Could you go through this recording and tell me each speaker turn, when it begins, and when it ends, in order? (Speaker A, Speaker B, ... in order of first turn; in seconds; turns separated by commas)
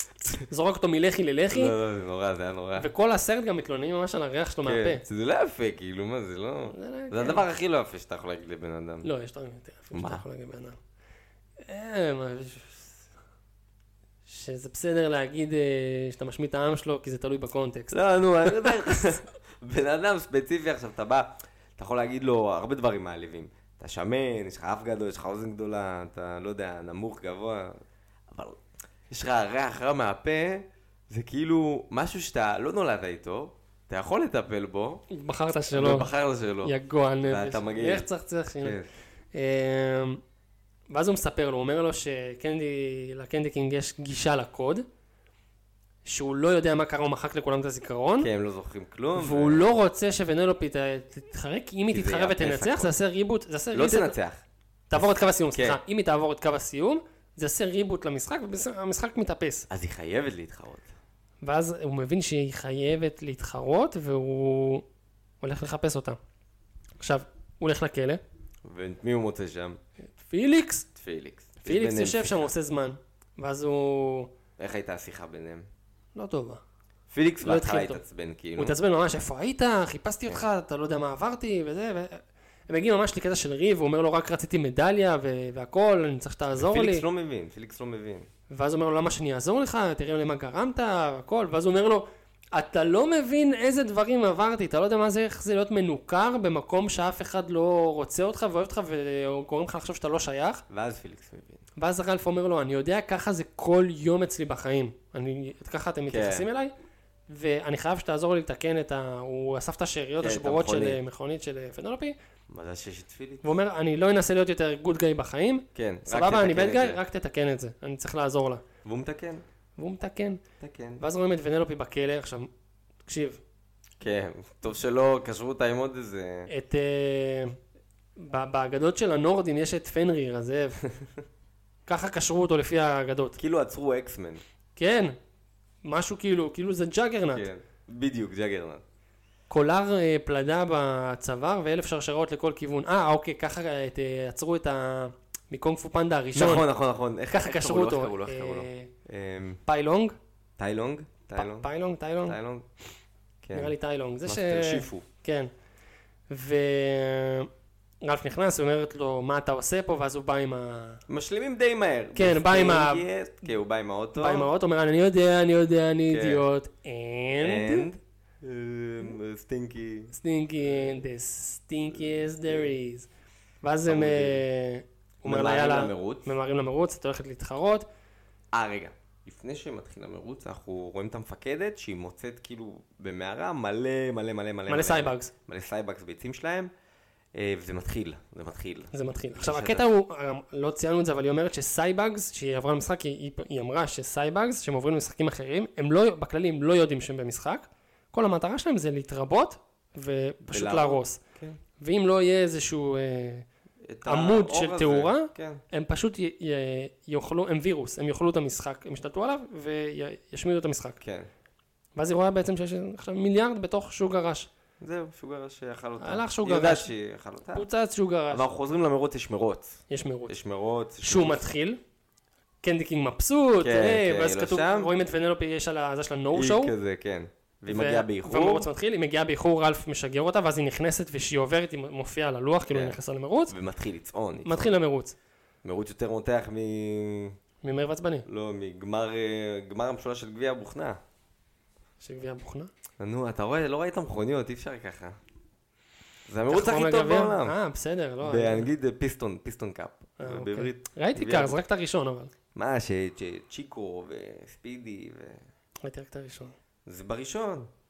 Speaker A: 0.5-1.7, Speaker B: 1.5-2.9, Speaker A: 2.8-5.0, Speaker B: 4.6-9.1, Speaker A: 6.7-7.4, Speaker A: 9.0-10.8, Speaker B: 9.9-10.2, Speaker A: 11.6-13.0, Speaker A: 14.3-19.0, Speaker B: 17.9-27.8, Speaker B: 28.3-35.0, Speaker A: 35.1-36.1, Speaker B: 35.7-38.1, Speaker A: 36.6-38.8, Speaker B: 38.6-38.9, Speaker A: 39.3-40.2, Speaker A: 40.9-44.8, Speaker A: 46.0-48.3, Speaker B: 48.2-49.7, Speaker A: 49.1-54.1, Speaker B: 51.9-52.9, Speaker B: 53.7-54.4, Speaker A: 54.9-59.7, Speaker B: 55.5-55.8, Speaker B: 59.7-60.9, Speaker A: 61.4-64.8, Speaker A: 65.4-66.2, Speaker A: 67.0-68.2, Speaker B: 68.6-69.8, Speaker A: 70.2-70.9, Speaker B: 71.0-72.5, Speaker A: 71.6-74.3, Speaker B: 74.6-75.7, Speaker A: 76.2-76.6, Speaker B: 77.1-78.8, Speaker A: 77.4-78.0, Speaker A: 78.6-87.0, Speaker B: 86.5-88.3, Speaker A: 88.5-100.6, Speaker B: 100.7-101.6, Speaker A: 101.8-106.7, Speaker B: 106.1-106.5, Speaker A: 107.3-112.2, Speaker B: 110.2-111.0, Speaker B: 112.5-113.5, Speaker A: 113.4-118.6, Speaker B: 115.7-117.0, Speaker B: 118.8-119.4, Speaker A: 119.8-120.4, Speaker B: 120.6-121.0, Speaker A: 121.0-122.5, Speaker A: 123.0-123.4, Speaker B: 124.0-126.5, Speaker A: 126.5-127.6, Speaker A: 128.2-130.8, Speaker A: 131.9-133.4, Speaker B: 133.4-134.4, Speaker A: 134.8-135.2, Speaker A: 135.8-137.5, Speaker B: 137.3-138.8, Speaker A: 139.5-146.7, Speaker B: 146.3-149.6, Speaker A: 147.3-148.9, Speaker A: 149.7-150.2, Speaker B: 150.6-151.7, Speaker A: 151.3-152.4, Speaker B: 152.2-152.7, Speaker B: 153.4-153.7, Speaker A: 153.5-155.5, Speaker B: 154.2-155.1, Speaker A: 156.3-157.5, Speaker A: 158.0-161.0, Speaker B: 161.1-164.5, Speaker A: 162.1-163.1, Speaker A: 164.2-167.8, Speaker B: 166.1-166.4, Speaker B: 167.4-170.1, Speaker A: 170.1-173.1, Speaker B: 172.1-172.7, Speaker A: 173.6-177.8, Speaker B: 173.8-174.4, Speaker B: 175.2-176.3, Speaker B: 178.5-186.7, Speaker A: 184.7-185.3, Speaker B: 187.3-189.8, Speaker A: 188.9-201.2, Speaker B: 200.4-201.6, Speaker A: 201.8-203.5, Speaker B: 203.9-205.6, Speaker A: 204.1-211.0, Speaker B: 211.0-211.3, Speaker A: 211.9-214.5, Speaker B: 214.8-217.7, Speaker A: 216.0-216.9, Speaker A: 217.5-218.4, Speaker B: 218.3-221.5, Speaker A: 219.9-220.3, Speaker A: 221.0-221.8, Speaker A: 222.6-226.7, Speaker B: 223.6-224.9, Speaker B: 226.3-228.7, Speaker A: 227.7-233.5, Speaker B: 232.7-233.0, Speaker B: 233.5-234.7, Speaker A: 234.4-235.2, Speaker B: 235.6-237.4, Speaker A: 237.6-238.2, Speaker B: 238.3-241.0, Speaker A: 242.0-242.7, Speaker B: 243.0-245.2, Speaker B: 246.3-247.5, Speaker A: 246.5-248.7, Speaker B: 248.2-251.6, Speaker A: 250.2-252.3, Speaker B: 252.5-255.4, Speaker A: 255.8-256.5, Speaker B: 256.9-257.7